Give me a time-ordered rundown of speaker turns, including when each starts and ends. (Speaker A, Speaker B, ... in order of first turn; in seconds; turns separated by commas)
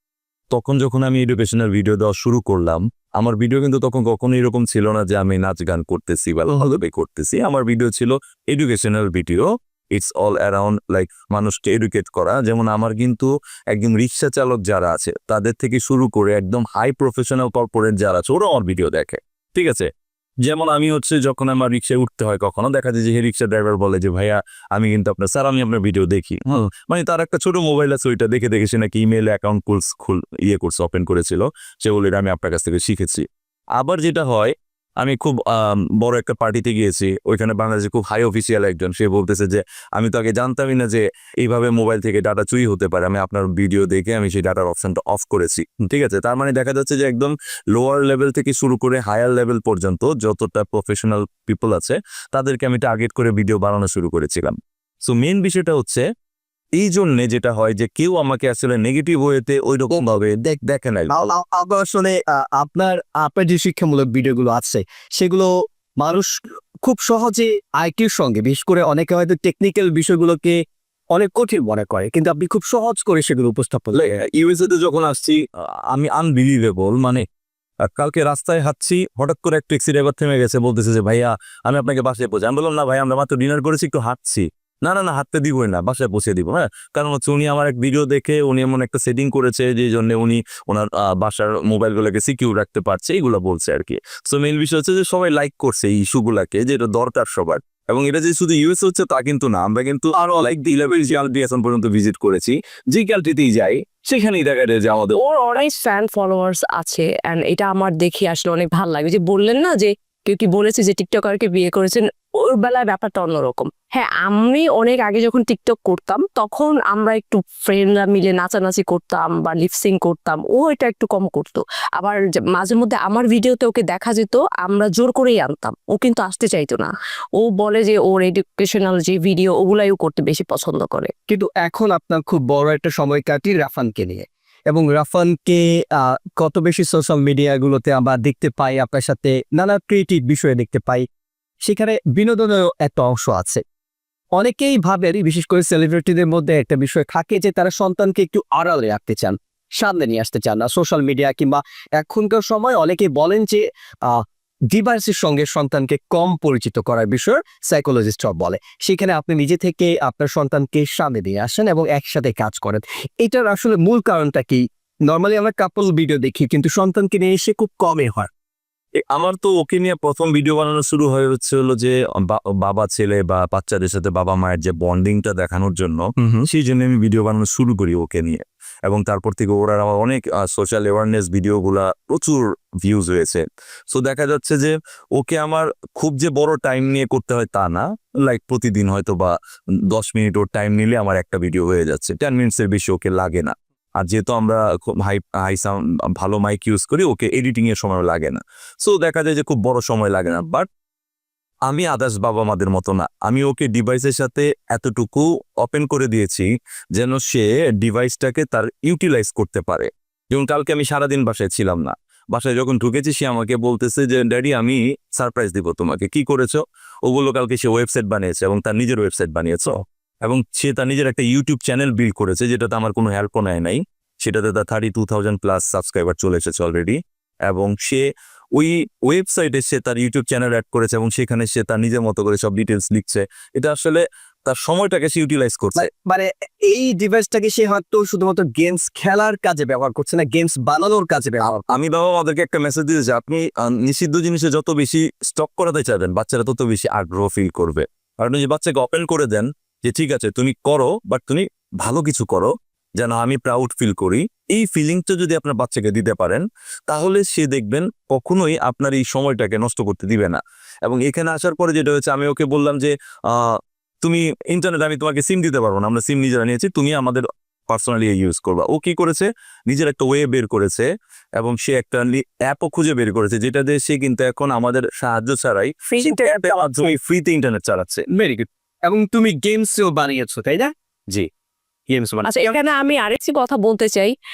Speaker A: 0.5-19.9, Speaker A: 20.4-56.0, Speaker A: 56.8-61.2, Speaker B: 61.1-70.6, Speaker B: 71.1-74.1, Speaker A: 73.9-77.3, Speaker A: 77.8-105.2, Speaker C: 105.2-131.1, Speaker B: 131.3-141.1, Speaker B: 141.7-143.6, Speaker B: 144.4-168.3, Speaker A: 169.0-189.3, Speaker B: 176.2-176.5, Speaker A: 189.9-200.7, Speaker A: 201.7-235.9, Speaker B: 235.8-241.6, Speaker A: 241.4-278.1, Speaker B: 278.1-280.7, Speaker B: 281.9-282.3, Speaker C: 282.2-284.1